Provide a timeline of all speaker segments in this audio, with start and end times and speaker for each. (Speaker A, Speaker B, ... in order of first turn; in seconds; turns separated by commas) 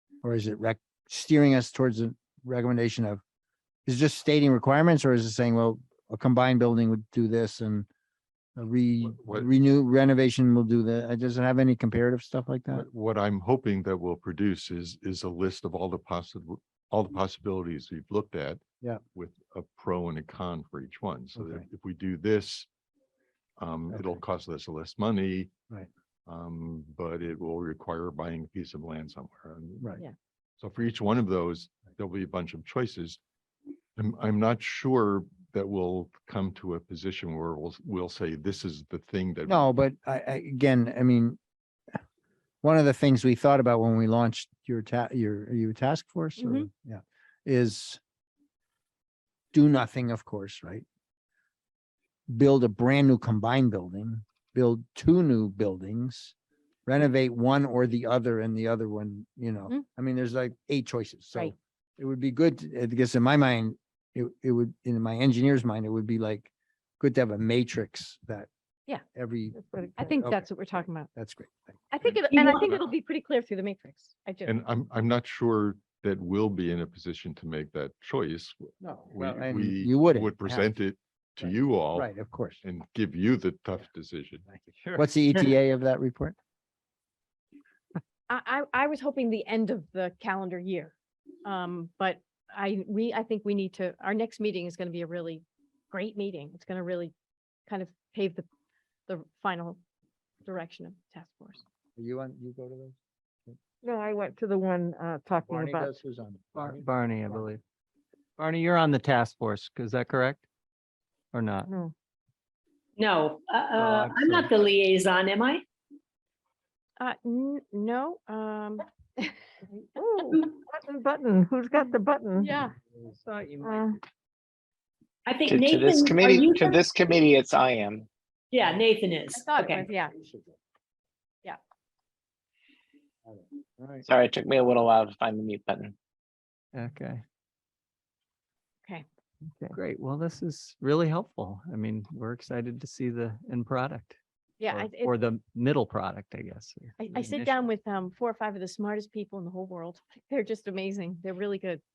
Speaker A: 0.2-3.2, Speaker A: 3.9-7.9, Speaker A: 8.6-12.9, Speaker B: 9.1-9.5, Speaker B: 12.7-18.6, Speaker B: 19.1-22.7, Speaker A: 21.4-21.6, Speaker B: 23.6-25.5, Speaker A: 23.9-24.2, Speaker B: 26.3-29.9, Speaker B: 30.6-33.2, Speaker B: 34.0-39.7, Speaker A: 39.5-41.4, Speaker A: 42.6-48.0, Speaker C: 46.4-46.7, Speaker A: 49.5-50.9, Speaker A: 52.3-56.4, Speaker A: 56.9-68.5, Speaker A: 69.1-71.8, Speaker D: 69.5-70.0, Speaker C: 70.0-71.1, Speaker C: 71.9-74.5, Speaker E: 72.3-72.7, Speaker B: 74.5-82.1, Speaker A: 78.8-80.7, Speaker A: 81.4-82.6, Speaker B: 82.6-84.5, Speaker A: 84.5-86.4, Speaker C: 88.3-97.1, Speaker C: 97.7-98.5, Speaker C: 99.1-99.8, Speaker C: 100.4-101.6, Speaker A: 102.0-103.6, Speaker D: 103.8-105.9, Speaker A: 105.4-107.4, Speaker F: 106.6-107.6, Speaker F: 108.4-110.5, Speaker F: 111.3-111.7, Speaker D: 111.7-111.9, Speaker E: 113.0-115.6, Speaker F: 113.7-114.5, Speaker C: 117.0-119.3, Speaker D: 120.0-122.5, Speaker C: 122.4-122.8, Speaker F: 123.1-124.0, Speaker D: 123.6-124.0, Speaker E: 125.3-126.8, Speaker G: 125.5-128.1, Speaker E: 128.5-129.9, Speaker C: 129.3-130.1, Speaker A: 130.2-130.5, Speaker A: 133.8-134.1, Speaker G: 134.1-135.9, Speaker F: 136.7-137.2, Speaker F: 139.7-144.2, Speaker C: 144.6-145.1, Speaker F: 144.7-147.7, Speaker C: 147.0-151.8